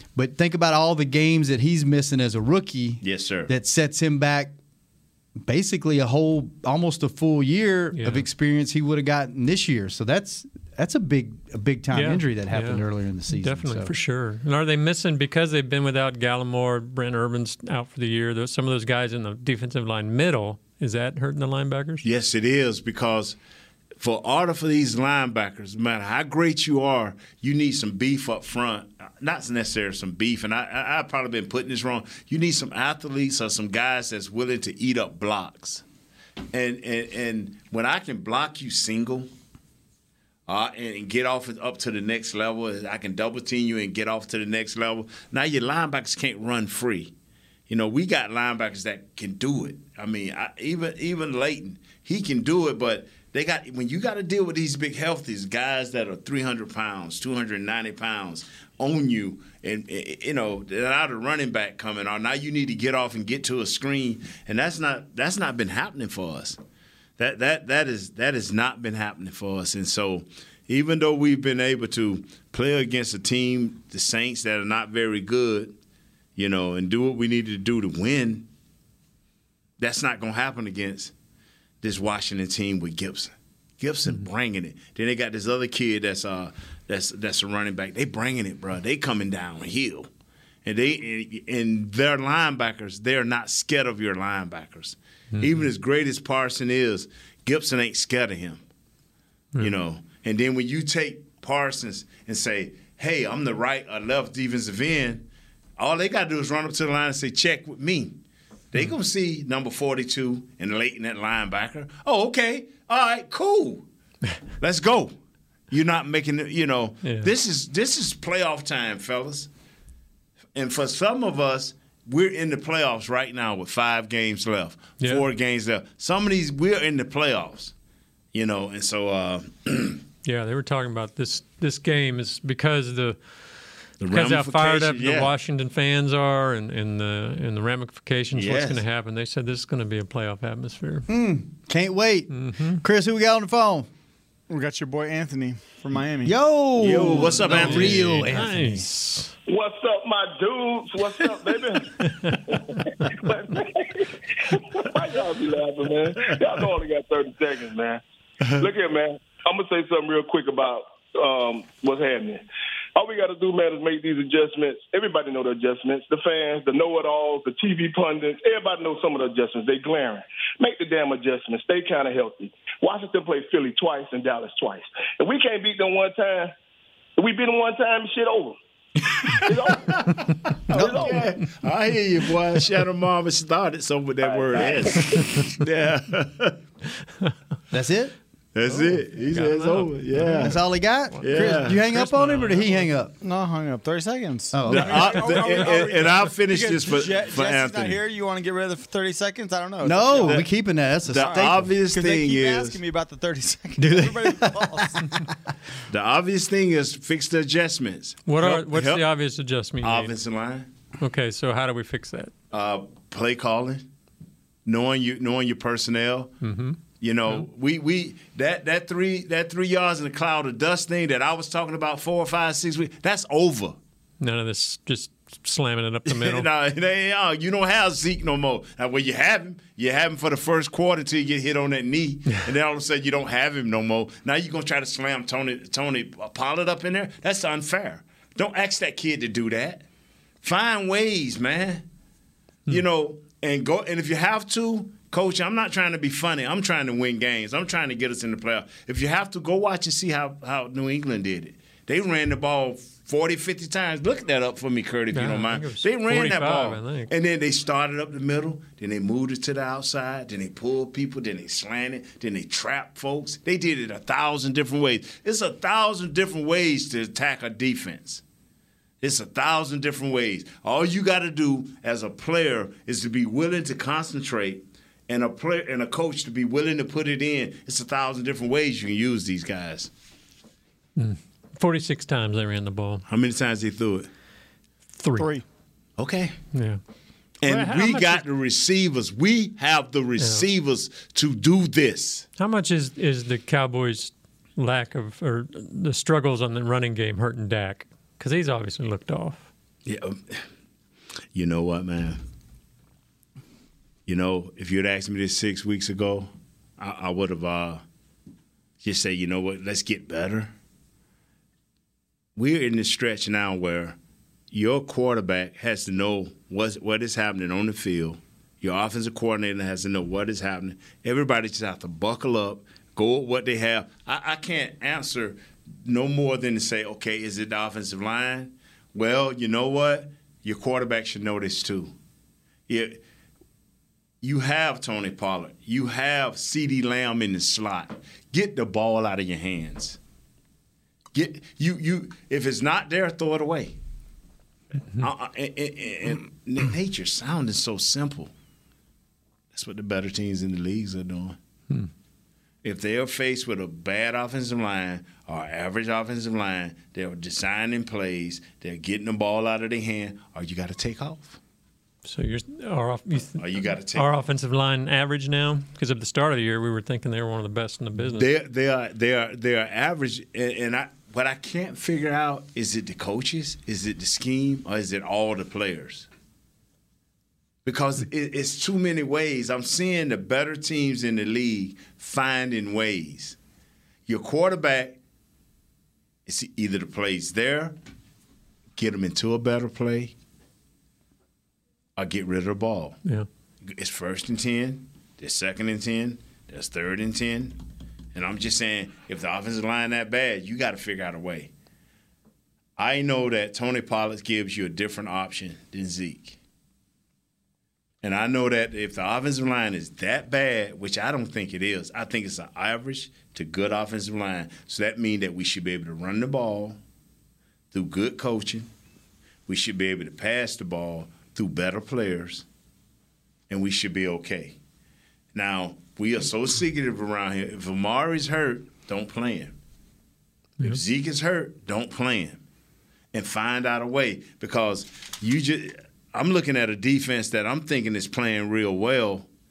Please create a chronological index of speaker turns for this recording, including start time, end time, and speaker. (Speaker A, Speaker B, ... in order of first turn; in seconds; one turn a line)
Speaker A: 0.2-4.5
Speaker B: 3.0-3.5
Speaker A: 5.5-13.9
Speaker C: 7.9-8.3
Speaker C: 11.9-22.1
Speaker B: 22.0-23.4
Speaker B: 24.0-35.8
Speaker B: 36.5-39.3
Speaker B: 40.5-47.1
Speaker B: 47.7-66.6
Speaker B: 67.2-75.8
Speaker B: 76.4-78.5
Speaker B: 79.8-81.1
Speaker B: 81.8-90.1
Speaker B: 90.7-98.6
Speaker B: 99.6-105.3
Speaker B: 105.8-108.2
Speaker B: 108.7-113.8
Speaker B: 114.6-115.1
Speaker B: 115.7-119.5
Speaker C: 117.0-117.3
Speaker B: 120.5-127.7
Speaker B: 128.3-130.0
Speaker C: 130.2-141.1
Speaker B: 134.0-135.3
Speaker B: 138.3-138.8
Speaker A: 141.1-143.9
Speaker C: 142.3-142.8
Speaker D: 144.5-146.3
Speaker A: 146.2-148.8
Speaker B: 146.8-148.2
Speaker C: 147.4-149.3
Speaker E: 149.5-158.0
Speaker E: 158.6-162.4
Speaker E: 163.0-176.5
Speaker E: 177.2-178.6
Speaker E: 179.3-181.3
Speaker B: 180.7-186.6
Speaker E: 184.6-184.8
Speaker A: 187.7-188.1
Speaker B: 188.6-190.6
Speaker C: 189.3-190.6
Speaker A: 190.3-193.1
Speaker C: 191.1-192.9
Speaker B: 191.2-191.9
Speaker D: 193.2-200.5
Speaker A: 194.5-195.6
Speaker B: 194.7-198.0
Speaker A: 199.8-201.6
Speaker B: 201.1-202.8
Speaker D: 201.2-205.3
Speaker A: 203.8-205.2
Speaker B: 205.9-209.0
Speaker C: 208.3-210.1
Speaker B: 209.8-210.7
Speaker C: 211.0-212.3
Speaker B: 212.5-213.8
Speaker B: 214.7-216.3
Speaker C: 216.4-217.5
Speaker B: 217.0-223.8
Speaker C: 224.2-226.5
Speaker B: 226.1-239.8
Speaker B: 240.4-241.8
Speaker B: 242.7-268.2
Speaker C: 255.1-257.1
Speaker B: 269.0-279.9
Speaker C: 281.0-283.0
Speaker B: 283.1-284.1
Speaker C: 285.0-285.3
Speaker D: 285.2-285.4
Speaker B: 286.0-286.4
Speaker C: 286.5-286.8
Speaker B: 287.4-292.3
Speaker C: 287.5-288.2
Speaker C: 290.2-290.5
Speaker C: 292.4-299.5
Speaker B: 299.9-300.4
Speaker B: 301.3-302.2
Speaker B: 304.1-307.8
Speaker B: 308.8-310.5
Speaker B: 312.4-314.0
Speaker B: 314.5-331.9
Speaker B: 332.7-333.0
Speaker B: 334.2-340.0
Speaker B: 341.1-343.8
Speaker B: 345.0-348.3
Speaker B: 349.5-351.4
Speaker B: 352.6-361.4
Speaker C: 362.1-368.3
Speaker B: 363.4-364.1
Speaker B: 368.0-376.1
Speaker B: 377.6-383.4
Speaker B: 384.1-385.0
Speaker B: 386.3-387.8
Speaker B: 388.8-390.1
Speaker B: 392.0-393.0
Speaker B: 393.7-397.6
Speaker B: 398.1-401.5
Speaker B: 402.8-406.4
Speaker B: 408.0-416.8
Speaker B: 417.7-418.7
Speaker B: 419.5-422.4
Speaker B: 423.5-424.6
Speaker B: 425.3-429.6
Speaker B: 430.6-432.4
Speaker B: 433.1-439.3